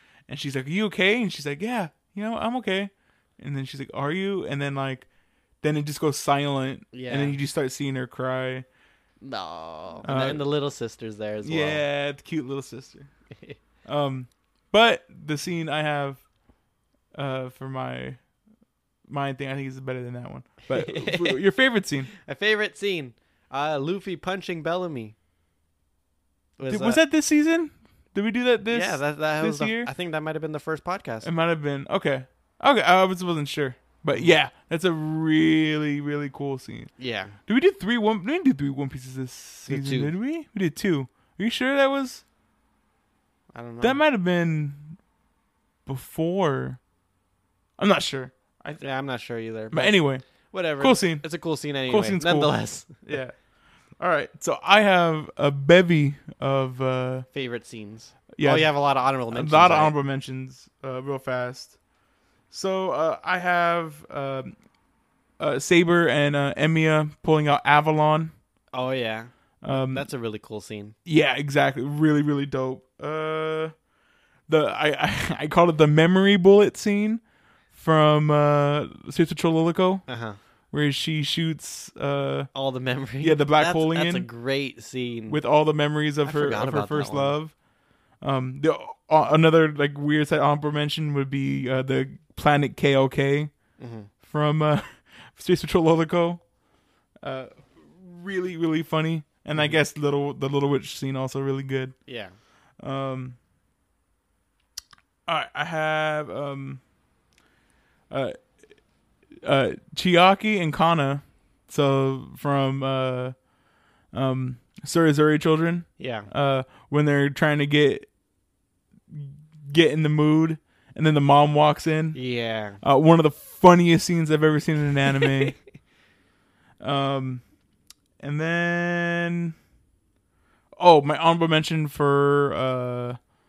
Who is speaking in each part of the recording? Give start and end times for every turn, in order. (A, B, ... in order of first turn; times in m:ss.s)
0:00.3-0:05.1 A
0:05.6-0:08.6 A
0:06.9-0:07.4 B
0:09.2-0:11.8 B
0:10.0-0:10.4 A
0:11.4-0:13.1 A
0:13.8-0:16.2 A
0:17.1-0:18.2 A
0:19.1-0:22.1 A
0:20.7-0:21.4 B
0:22.1-0:25.1 B
0:26.6-0:27.0 B
0:26.7-0:29.9 A
0:28.7-0:31.3 B
0:31.2-0:36.9 A
0:37.0-0:37.4 B
0:37.4-0:42.2 A
0:39.7-0:40.1 B
0:43.5-0:44.0 B
0:43.8-0:45.0 A
0:45.8-0:46.8 A
0:47.8-0:48.8 A
0:48.8-0:53.0 B
0:49.7-0:50.2 A
0:50.8-0:51.2 A
0:51.9-0:53.3 A
0:54.0-0:57.2 A
0:57.3-0:59.9 B
0:58.4-0:58.7 A
0:59.3-1:01.8 A
1:02.5-1:04.5 A
1:05.4-1:08.3 A
1:08.7-1:10.9 B
1:09.6-1:10.1 A
1:11.0-1:13.7 A
1:14.5-1:17.2 A
1:17.7-1:20.0 A
1:20.1-1:20.4 B
1:20.7-1:22.5 A
1:22.5-1:25.4 B
1:23.2-1:24.3 A
1:25.3-1:27.5 A
1:26.2-1:27.4 B
1:28.2-1:33.5 A
1:33.8-1:34.1 B
1:34.2-1:36.4 A
1:37.2-1:41.9 A
1:39.5-1:39.8 B
1:42.1-1:42.3 B
1:42.8-1:43.4 A
1:45.3-1:46.8 A
1:48.1-1:48.4 A
1:49.4-1:53.4 A
1:54.1-1:58.1 A
1:56.0-1:56.3 B
1:59.1-2:02.2 A
2:02.1-2:02.8 B
2:02.8-2:05.6 A
2:06.8-2:07.4 A
2:08.2-2:09.5 A
2:10.8-2:13.2 A